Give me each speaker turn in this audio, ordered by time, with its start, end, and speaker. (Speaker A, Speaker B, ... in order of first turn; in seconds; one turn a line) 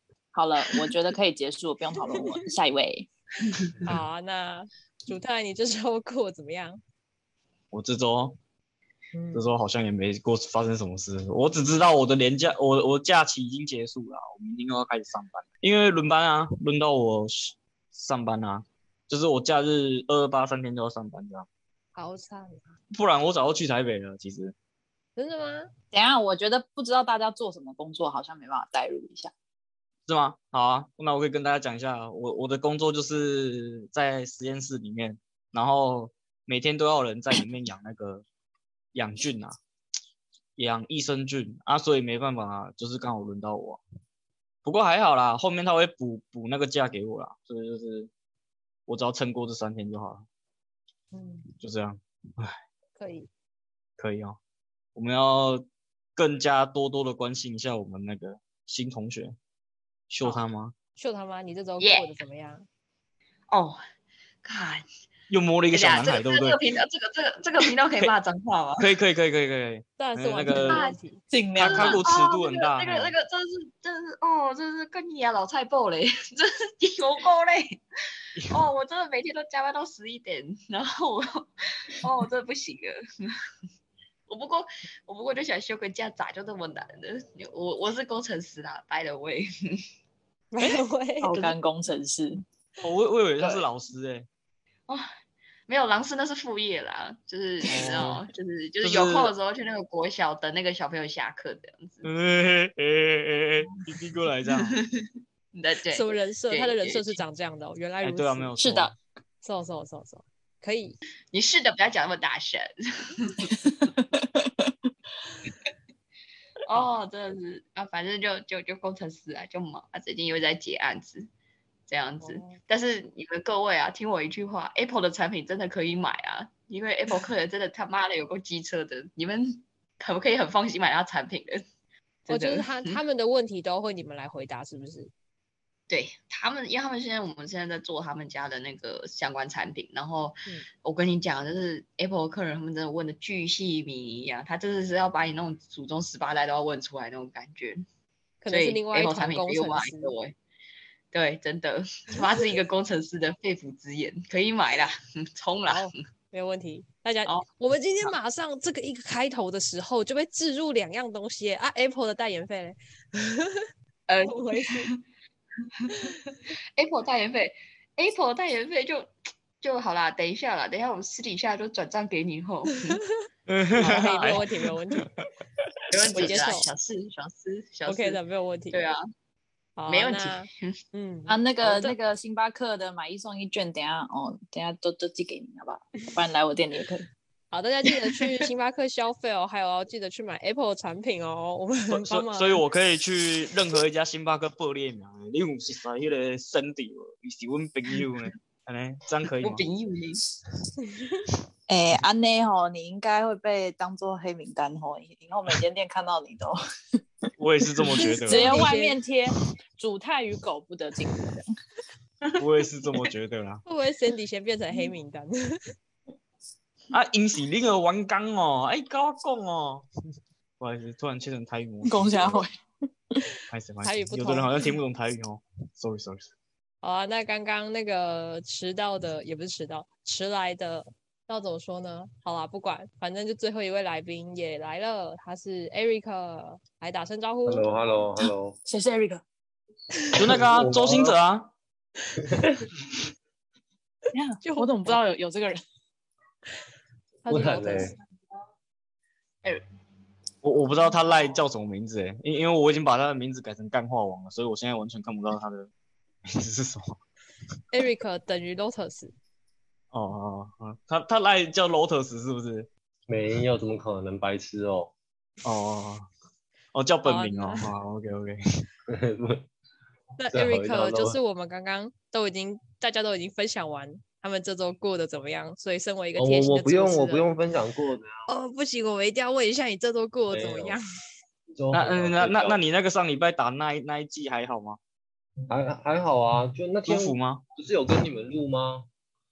Speaker A: 0.3-3.1
Speaker B: 2.1-2.4
Speaker B: 3.8-6.8
Speaker C: 7.7-8.4
Speaker B: 9.1-9.5
Speaker C: 9.3-21.4
Speaker B: 21.9-22.6
Speaker C: 22.9-24.5
Speaker B: 25.2-25.7
Speaker A: 25.9-29.3
Speaker C: 30.1-38.2
Speaker C: 38.9-39.6
Speaker C: 40.6-43.8
Speaker C: 44.6-48.1
Speaker C: 48.9-50.2
Speaker B: 51.1-51.5
Speaker C: 51.6-52.6
Speaker B: 53.0-53.3
Speaker C: 54.0-54.4
Speaker C: 54.9-59.3
Speaker C: 60.1-60.7
Speaker B: 61.0-62.6
Speaker D: 61.8-62.1
Speaker D: 63.5-63.8
Speaker D: 64.4-64.8
Speaker C: 65.3-66.6
Speaker D: 65.7-68.9
Speaker C: 68.8-70.9
Speaker B: 70.0-71.2
Speaker D: 70.7-71.0
Speaker A: 71.3-72.0
Speaker D: 71.6-77.8
Speaker C: 71.6-73.1
Speaker D: 78.5-83.3
Speaker D: 84.3-89.8
Speaker B: 90.5-91.3
Speaker A: 90.6-92.4
Speaker C: 92.8-94.2
Speaker D: 95.7-102.1
Speaker C: 97.7-98.2
Speaker C: 98.8-99.3
Speaker C: 102.0-104.8
Speaker D: 104.5-105.0
Speaker D: 105.5-107.2
Speaker B: 105.9-108.5
Speaker C: 108.0-108.9
Speaker A: 108.6-108.9
Speaker B: 109.4-111.0
Speaker D: 111.3-113.5
Speaker A: 113.6-114.7
Speaker D: 116.6-121.3
Speaker D: 121.9-131.6
Speaker B: 122.2-122.6
Speaker D: 132.2-133.0
Speaker B: 132.3-135.1
Speaker D: 135.9-147.8
Speaker B: 148.4-150.1
Speaker D: 148.5-150.3
Speaker D: 151.1-155.9
Speaker B: 155.7-163.7
Speaker D: 164.1-165.0
Speaker B: 164.3-164.9
Speaker D: 166.8-173.0
Speaker C: 173.5-174.4
Speaker D: 173.8-174.4
Speaker B: 173.8-175.1
Speaker C: 175.0-175.3
Speaker D: 175.9-178.2
Speaker B: 176.1-176.7
Speaker B: 177.9-178.8
Speaker D: 178.7-179.0
Speaker B: 179.8-182.0
Speaker D: 179.9-180.8
Speaker A: 181.3-187.1
Speaker B: 187.5-192.6
Speaker C: 191.9-199.6
Speaker D: 199.4-200.2
Speaker A: 201.7-206.6
Speaker C: 207.4-208.6
Speaker A: 207.9-211.5
Speaker B: 208.0-209.0
Speaker C: 212.4-213.6
Speaker B: 213.7-215.6
Speaker C: 216.9-219.9
Speaker C: 220.6-222.4
Speaker A: 221.8-222.6
Speaker C: 223.5-226.3
Speaker B: 223.8-224.7
Speaker B: 226.8-237.7
Speaker E: 237.4-238.6
Speaker A: 238.7-239.2
Speaker C: 240.1-241.5
Speaker E: 240.2-241.2
Speaker E: 242.3-242.6
Speaker A: 244.1-245.6
Speaker B: 244.4-245.0
Speaker B: 247.2-248.0
Speaker E: 247.3-247.9
Speaker C: 250.4-255.7
Speaker C: 256.3-257.0
Speaker B: 257.7-259.1
Speaker C: 259.9-262.7
Speaker E: 263.1-264.9
Speaker C: 265.4-266.1
Speaker C: 266.7-268.4
Speaker B: 267.0-267.7
Speaker E: 268.9-269.5
Speaker B: 270.2-277.3
Speaker E: 270.3-271.2
Speaker E: 276.1-278.2
Speaker B: 278.3-280.8
Speaker E: 280.3-280.8
Speaker E: 281.6-282.6
Speaker C: 281.7-284.8
Speaker E: 285.5-288.9
Speaker C: 286.9-287.4